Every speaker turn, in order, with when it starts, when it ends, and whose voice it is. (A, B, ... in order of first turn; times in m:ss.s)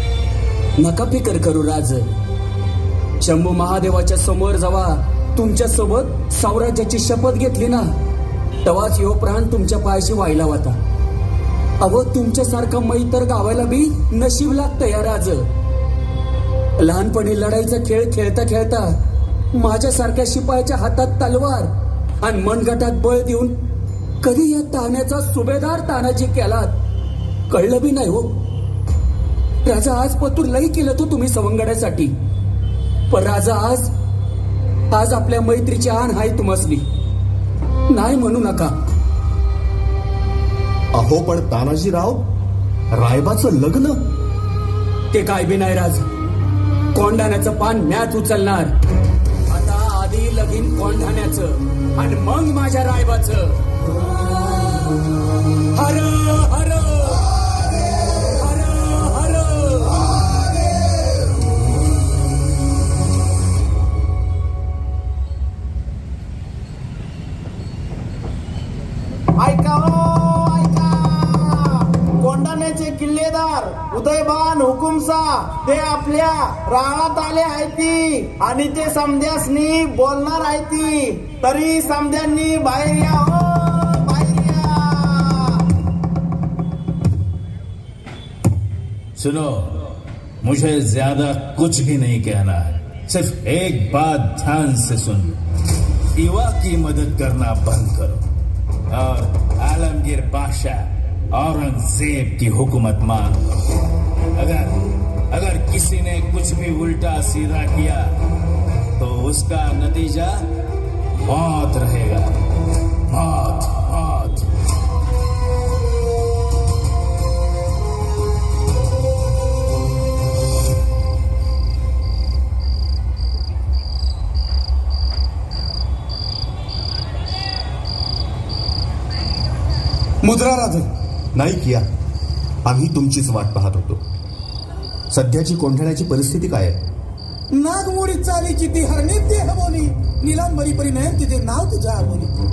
0:00.8-0:02.1 A
0:03.2-0:07.9 A
0:08.6-0:10.8 A
0:11.8-0:15.5 A
0:16.8-0:19.0 A
0:19.5-0:21.7 A
0:22.2-0:23.6 A
0:24.2-0:26.7 A
0:27.5-0:28.3 A
0:29.6-0:32.1 A
0:33.1-0:33.9 A
0:34.9-0:36.8 A
0:37.9-0:38.7 A
0:40.9-0:42.2 B
0:42.9-0:44.0 B
0:45.1-0:46.1 A
0:46.9-0:48.7 A
0:49.5-0:53.6 A
0:55.7-0:57.4 A
0:58.0-1:00.1 A
1:09.4-1:25.6 C
1:29.2-1:35.4 D
1:36.2-1:38.2 D
1:38.9-1:43.4 D
1:44.4-1:44.8 D
1:45.3-1:48.1 D
1:49.0-1:50.4 D
1:51.2-1:52.3 D
1:53.1-1:54.5 D
2:10.2-2:10.9 E
2:11.3-2:11.9 B
2:12.6-2:14.0 B
2:15.1-2:16.8 B
2:17.5-2:22.3 E